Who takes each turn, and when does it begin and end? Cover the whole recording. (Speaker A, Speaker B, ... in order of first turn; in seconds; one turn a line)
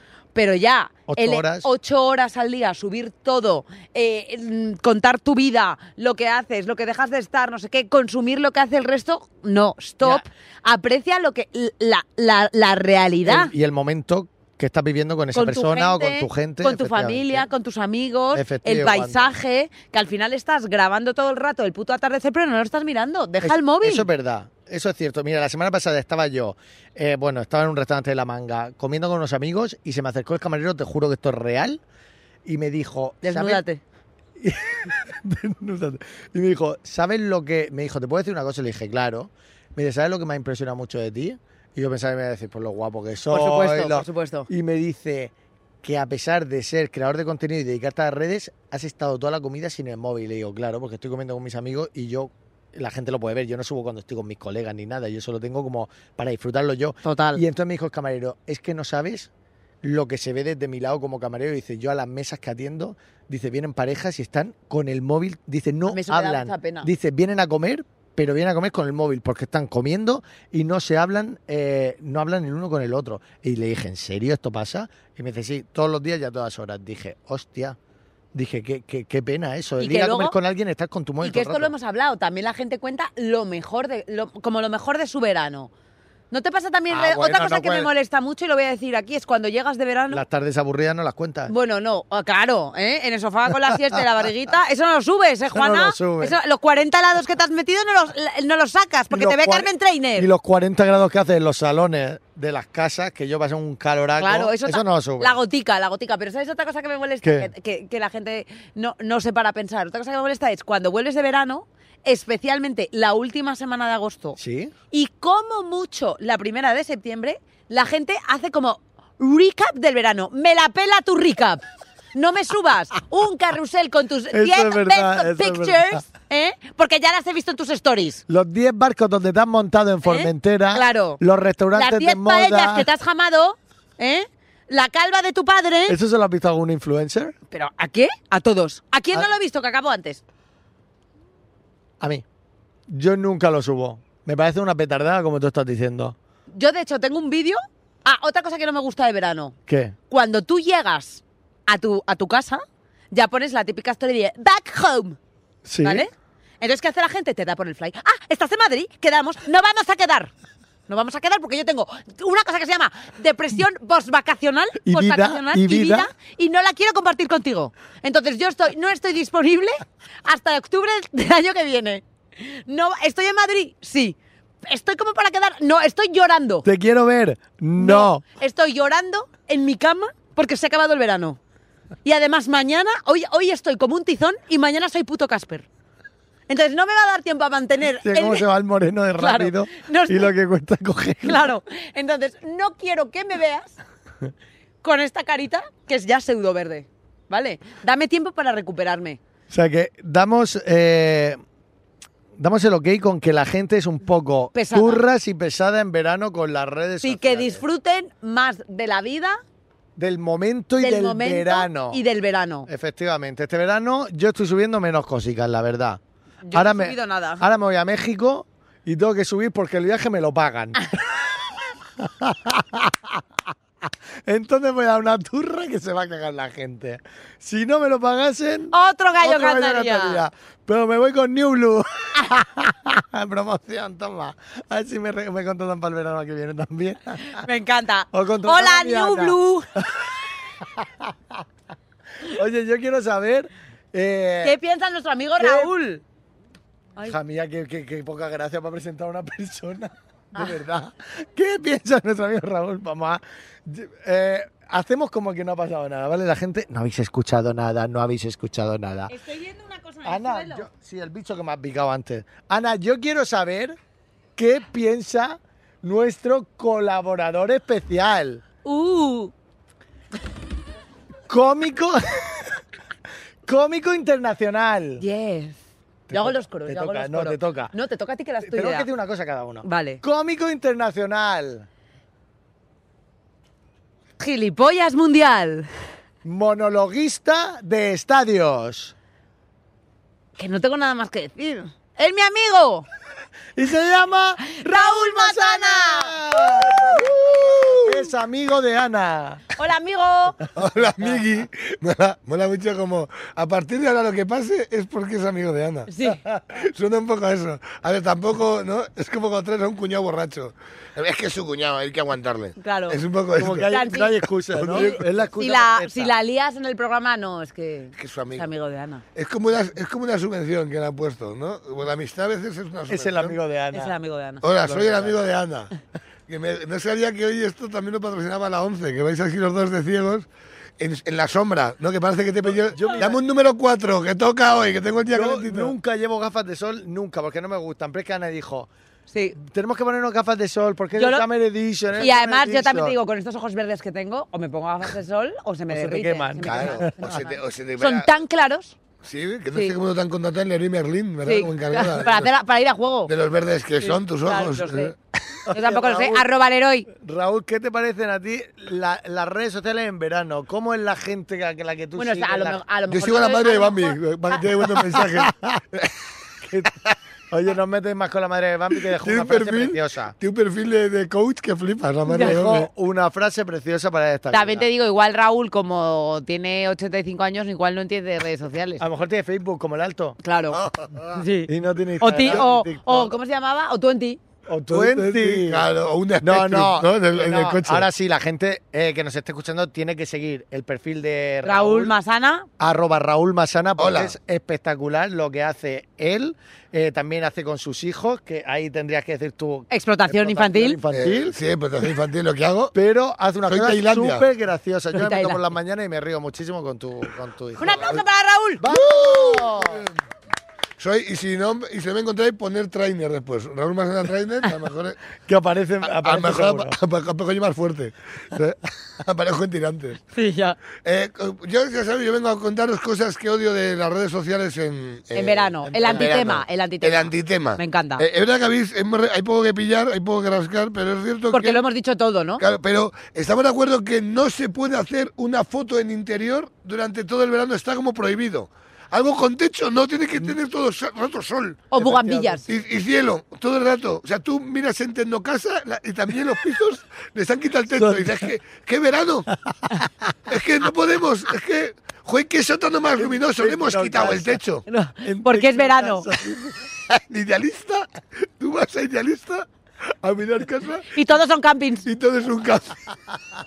Speaker A: 0.3-13.5
Speaker B: 1.1-1.7
Speaker B: 13.2-17.5
Speaker A: 15.3-24.1
Speaker B: 18.3-19.3
Speaker B: 23.4-31.8
Speaker B: 32.4-33.6
Speaker A: 33.2-33.8
Speaker B: 34.4-45.3
Speaker A: 43.3-44.5
Speaker B: 45.8-59.3
Speaker A: 57.0-57.4
Speaker B: 59.8-77.8
Speaker A: 65.9-66.9
Speaker B: 78.3-81.7
Speaker A: 79.8-80.3
Speaker A: 81.2-85.7
Speaker A: 86.3-90.2
Speaker B: 86.9-87.9
Speaker B: 90.1-91.5
Speaker A: 91.5-100.3
Speaker B: 95.5-96.3
Speaker B: 99.1-105.4
Speaker A: 104.2-114.4
Speaker B: 107.2-107.5
Speaker B: 114.4-114.7
Speaker A: 114.9-128.2
Speaker B: 124.3-126.0
Speaker B: 128.3-132.9
Speaker A: 130.0-131.2
Speaker A: 131.7-136.0
Speaker B: 135.9-137.3
Speaker A: 137.5-140.2
Speaker B: 142.0-142.2
Speaker B: 142.9-146.2
Speaker A: 146.5-149.5
Speaker B: 149.7-149.9
Speaker A: 150.1-155.2
Speaker B: 155.6-156.0
Speaker A: 155.8-160.3
Speaker A: 160.9-176.7
Speaker B: 164.8-166.1
Speaker B: 176.6-178.2
Speaker A: 177.8-181.4
Speaker A: 182.0-185.7
Speaker A: 186.5-188.4
Speaker B: 188.0-191.5
Speaker A: 189.2-190.3
Speaker A: 191.2-193.8
Speaker A: 194.8-199.2
Speaker B: 199.5-201.4
Speaker B: 202.3-207.6
Speaker A: 204.5-205.0
Speaker A: 207.0-209.4
Speaker B: 210.0-212.0
Speaker A: 210.8-212.7
Speaker B: 212.7-216.0
Speaker A: 216.4-217.4
Speaker B: 216.5-221.4
Speaker B: 222.0-223.2
Speaker B: 224.2-237.4
Speaker A: 228.7-230.2
Speaker A: 237.2-239.7
Speaker B: 238.1-241.4
Speaker B: 242.2-244.6
Speaker A: 244.4-246.0
Speaker B: 245.4-245.7
Speaker B: 247.0-259.1
Speaker A: 259.1-260.7
Speaker B: 260.0-263.8
Speaker B: 264.4-268.4
Speaker A: 268.6-269.3
Speaker B: 271.3-272.6
Speaker B: 273.4-275.0
Speaker A: 275.0-275.6
Speaker B: 276.1-277.7
Speaker A: 276.1-278.9
Speaker B: 278.4-281.7
Speaker A: 279.6-280.0
Speaker A: 284.2-285.7
Speaker B: 286.2-288.9
Speaker A: 290.4-292.9
Speaker B: 293.6-299.4
Speaker A: 294.4-297.7
Speaker A: 299.6-300.4
Speaker C: 300.5-305.9
Speaker A: 305.9-306.2
Speaker C: 306.5-313.7
Speaker A: 312.6-313.0
Speaker B: 313.3-316.1
Speaker A: 313.6-314.1
Speaker C: 314.5-315.1
Speaker A: 314.7-319.0
Speaker C: 318.0-318.5
Speaker C: 319.1-323.4
Speaker B: 322.9-323.9
Speaker A: 323.7-324.4
Speaker C: 324.4-325.7
Speaker B: 324.6-325.2
Speaker C: 326.3-330.3
Speaker C: 330.8-335.7
Speaker B: 332.4-333.2
Speaker B: 335.1-338.7
Speaker A: 339.1-339.4
Speaker B: 339.4-342.9
Speaker A: 340.9-341.2
Speaker A: 342.0-348.7
Speaker B: 345.7-347.1
Speaker C: 346.4-348.1
Speaker C: 349.0-352.3
Speaker A: 351.2-353.1
Speaker C: 353.1-355.0
Speaker A: 353.8-354.9
Speaker B: 355.4-356.3
Speaker A: 355.5-356.9
Speaker B: 356.9-362.6
Speaker A: 361.9-364.0
Speaker C: 362.9-365.9
Speaker B: 364.7-365.6
Speaker B: 366.4-366.7
Speaker B: 367.3-370.1
Speaker C: 369.0-372.7
Speaker B: 372.1-374.7
Speaker A: 372.1-372.4
Speaker A: 374.3-378.8
Speaker B: 378.8-380.2
Speaker A: 380.2-380.6
Speaker C: 380.5-381.2
Speaker A: 381.1-384.2
Speaker B: 381.5-383.1
Speaker C: 382.2-382.4
Speaker B: 384.5-385.6
Speaker C: 384.7-387.9
Speaker B: 386.2-391.9
Speaker A: 391.4-392.5
Speaker B: 392.6-401.3
Speaker C: 393.8-394.1
Speaker A: 399.7-400.8
Speaker C: 400.9-402.7
Speaker B: 402.7-408.0
Speaker C: 403.5-404.2
Speaker A: 404.9-405.4
Speaker A: 407.6-408.7
Speaker C: 407.7-408.0
Speaker B: 408.6-409.9
Speaker C: 408.6-409.9
Speaker C: 410.8-415.0
Speaker B: 415.2-416.8
Speaker C: 415.9-420.0
Speaker A: 420.1-420.6
Speaker C: 420.8-431.6
Speaker A: 425.1-428.0
Speaker B: 425.8-426.1
Speaker A: 431.3-432.4
Speaker C: 432.4-441.7
Speaker A: 441.7-442.4
Speaker B: 441.8-442.5
Speaker C: 442.4-449.3
Speaker B: 447.7-448.3
Speaker C: 450.3-454.6
Speaker B: 453.0-454.4
Speaker A: 454.7-456.1
Speaker B: 454.9-456.6
Speaker C: 456.9-459.5
Speaker C: 460.0-460.9
Speaker A: 460.9-461.9
Speaker C: 461.8-463.0